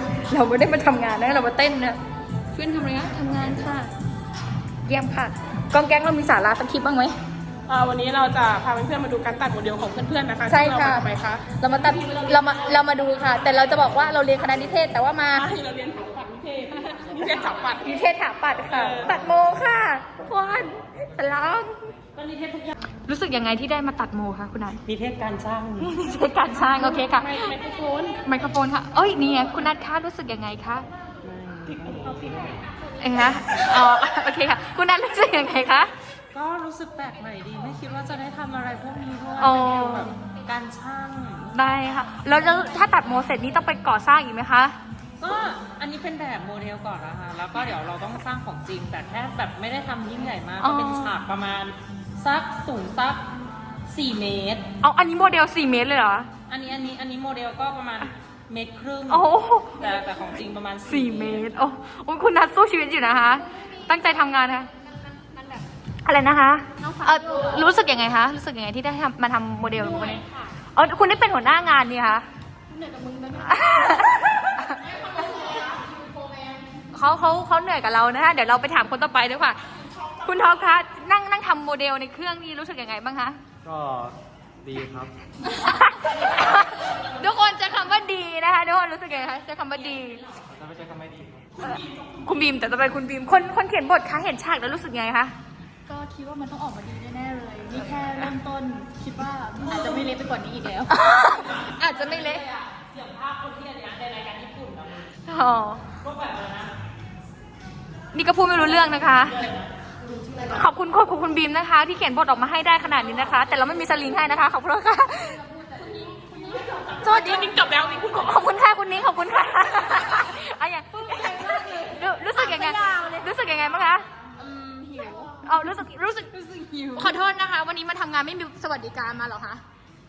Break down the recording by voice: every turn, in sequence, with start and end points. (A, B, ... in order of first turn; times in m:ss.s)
0:00.2-0:02.0 A
0:02.5-0:03.9 A
0:04.8-0:07.2 A
0:07.7-0:11.4 B
0:10.5-0:15.5 A
0:15.4-0:17.8 B
0:17.8-0:21.8 A
0:18.7-0:19.0 B
0:22.2-0:22.7 C
0:23.0-0:24.8 A
0:24.8-0:25.9 C
0:25.8-0:27.5 A
0:26.7-0:28.2 B
0:28.2-0:30.9 A
0:31.2-0:32.6 C
0:33.0-0:35.9 A
0:36.3-0:41.5 C
0:39.4-0:40.1 A
0:41.5-0:44.8 A
0:45.2-0:53.3 C
0:50.6-0:51.1 A
0:53.9-0:54.6 C
0:54.8-0:56.3 A
0:56.5-1:01.5 C
0:59.1-0:59.8 A
1:00.8-1:04.7 A
1:03.5-1:05.6 D
1:06.0-1:12.3 A
1:06.8-1:07.7 D
1:09.8-1:10.5 D
1:12.7-1:16.7 D
1:13.4-1:14.9 A
1:16.9-1:23.4 A
1:23.6-1:25.1 E
1:25.4-1:30.3 A
1:30.5-1:31.5 E
1:31.6-1:35.3 A
1:35.9-1:40.9 D
1:39.7-1:40.0 C
1:40.9-1:42.4 A
1:42.0-1:45.1 C
1:45.3-1:45.9 A
1:46.0-1:46.7 C
1:48.1-1:49.5 A
1:50.5-1:55.4 A
1:55.4-1:56.9 D
1:56.6-1:58.4 B
1:57.0-2:04.0 A
2:00.9-2:03.3 D
2:04.4-2:05.4 D
2:05.4-2:09.6 A
2:06.4-2:07.0 D